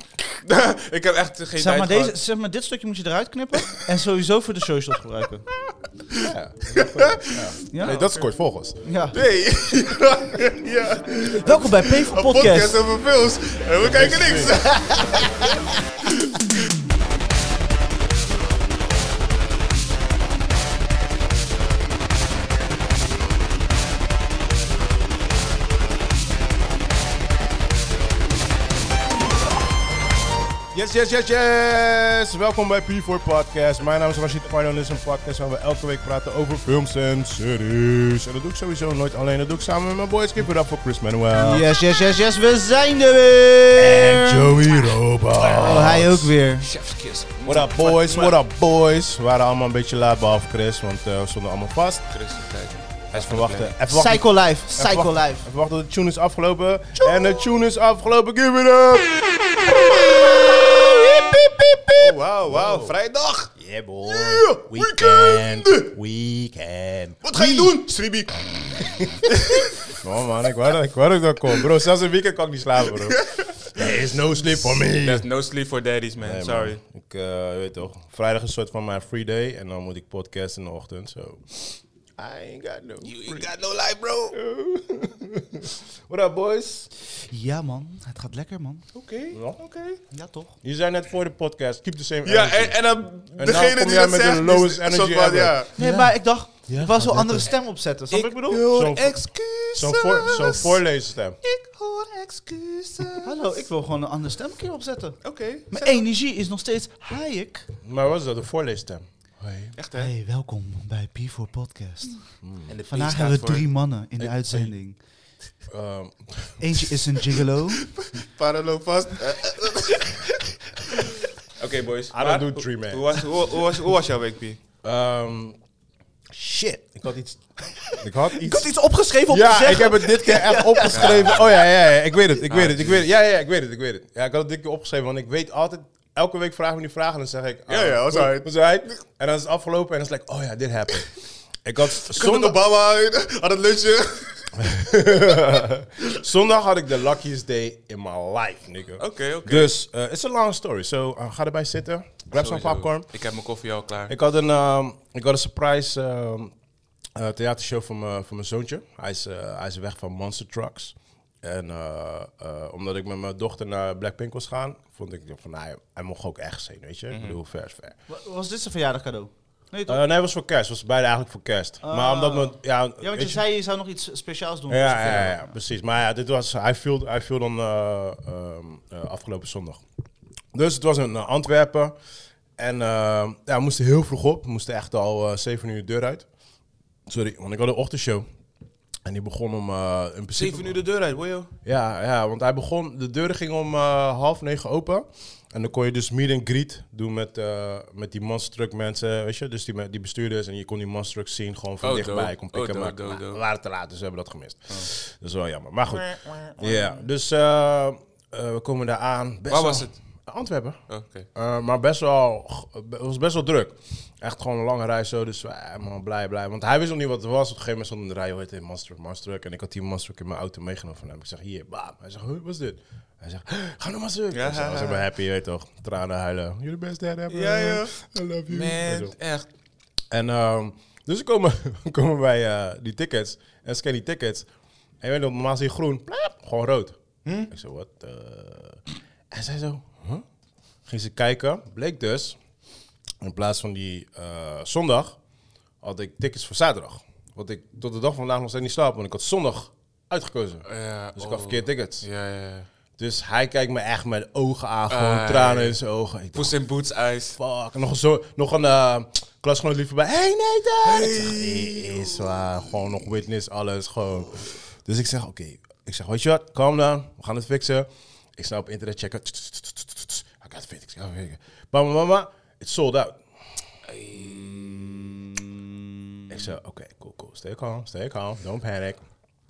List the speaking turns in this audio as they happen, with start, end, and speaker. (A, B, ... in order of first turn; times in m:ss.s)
0:00.4-0:02.2 A
0:01.6-0:05.6 B
0:06.2-0:08.8 C
0:06.7-0:07.3 A
0:07.7-0:08.1 B
0:07.8-0:08.3 A
0:08.8-0:09.2 B
0:09.1-0:15.3 A
0:11.4-0:12.9 B
0:13.8-0:14.6 C
0:14.7-0:15.5 B
0:30.7-0:41.7 C
0:41.3-0:44.7 B
0:43.8-0:46.4 C
0:45.4-0:46.0 A
0:45.6-0:46.7 B
0:46.6-0:48.4 A
0:47.4-0:52.1 C
0:52.1-0:53.8 A
0:53.1-0:59.3 C
0:53.9-0:55.5 B
1:01.3-1:02.9 C
1:02.0-1:03.5 A
1:03.6-1:07.7 C
1:04.1-1:05.9 A
1:07.2-1:09.7 A
1:08.8-1:09.2 C
1:09.9-1:15.2 C
1:13.2-1:13.7 A
1:15.0-1:16.8 A
1:16.2-1:23.5 C
1:23.0-1:24.4 A
1:24.3-1:26.9 C
1:27.0-1:28.8 B
1:28.9-1:30.0 A
1:29.3-1:29.6 C
1:30.1-1:30.6 B
1:30.6-1:32.8 C
1:32.2-1:35.7 A
1:33.4-1:37.5 C
1:35.8-1:38.7 B
1:38.1-1:40.8 A
1:38.7-1:41.4 C
1:41.4-1:43.4 A
1:43.2-1:47.7 B
1:45.2-1:46.0 A
1:47.8-1:49.8 C
1:49.8-1:50.1 A
1:50.0-1:55.0 B
1:52.4-1:52.7 C
1:52.7-1:53.7 A
1:54.2-1:54.7 C
1:55.7-1:56.9 C
1:56.6-1:58.0 B
1:58.0-2:00.1 A
1:59.9-2:00.5 B
2:01.6-2:04.6 A
2:02.1-2:03.3 C
2:04.8-2:05.6 C
2:06.3-2:22.6 C
2:08.4-2:11.5 B
2:10.9-2:11.6 A
2:12.5-2:13.0 A
2:17.7-2:19.0 A
2:22.1-2:24.8 A
2:24.6-2:33.1 C
2:29.0-2:29.7 A
2:32.4-2:34.2 A
2:34.1-2:36.5 C
2:37.2-2:48.0 C
2:47.1-2:47.4 A
2:48.1-2:50.0 B
2:49.9-2:53.4 C
2:51.8-2:55.5 B
2:54.7-2:59.8 C
3:00.5-3:01.9 C
3:02.6-3:06.3 C
3:07.1-3:08.3 C
3:09.0-3:10.8 C
3:10.4-3:11.5 A
3:11.6-3:49.2 C
3:21.8-3:23.4 A
3:26.0-3:27.0 A
3:29.5-3:30.0 A
3:30.9-3:31.3 A
3:44.3-3:45.1 A
3:47.3-3:49.5 A
3:50.1-3:54.5 C
3:55.0-4:00.2 C
3:57.2-3:57.5 A
4:00.9-4:02.4 C
4:03.2-4:05.2 C
4:05.8-4:12.0 C
4:10.7-4:12.7 A
4:13.0-4:16.6 C
4:14.9-4:15.8 A
4:16.3-4:17.4 A
4:17.4-4:33.2 C
4:20.9-4:22.2 A
4:34.1-4:35.9 B
4:36.3-4:39.0 C